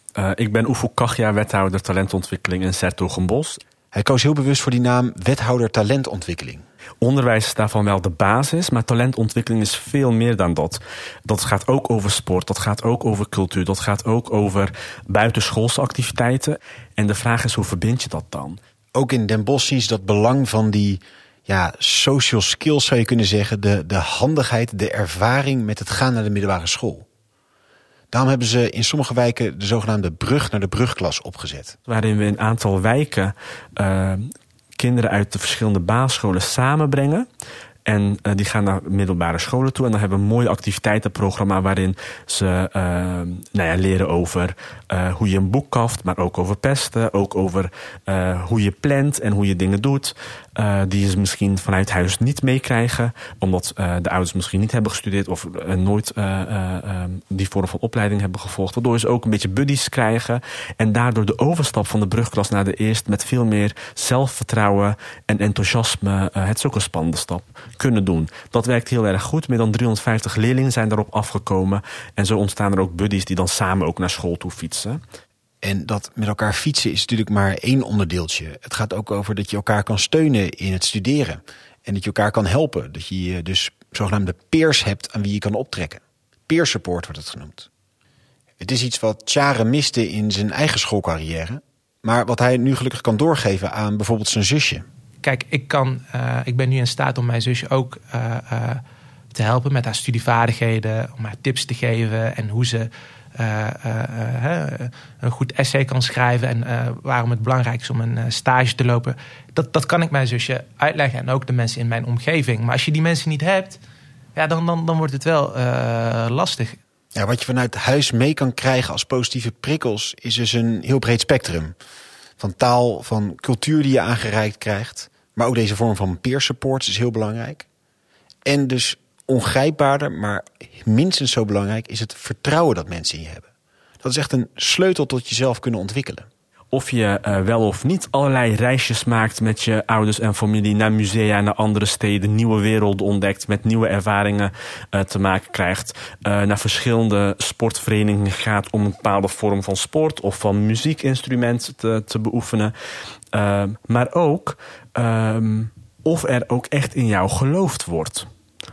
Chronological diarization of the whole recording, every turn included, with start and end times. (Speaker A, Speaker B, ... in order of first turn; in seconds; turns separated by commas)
Speaker A: 0.1-3.6, Speaker B: 3.9-6.6, Speaker A: 7.0-18.6, Speaker B: 18.9-27.1, Speaker B: 28.1-31.8, Speaker A: 31.9-37.3, Speaker A: 37.8-75.0, Speaker B: 75.6-87.7, Speaker B: 88.6-94.8, Speaker C: 95.2-98.8, Speaker C: 99.3-113.8, Speaker C: 114.3-116.8, Speaker B: 117.1-121.7, Speaker B: 122.4-127.7, Speaker B: 128.4-133.5, Speaker B: 134.0-136.3, Speaker A: 136.7-152.7, Speaker A: 153.3-158.3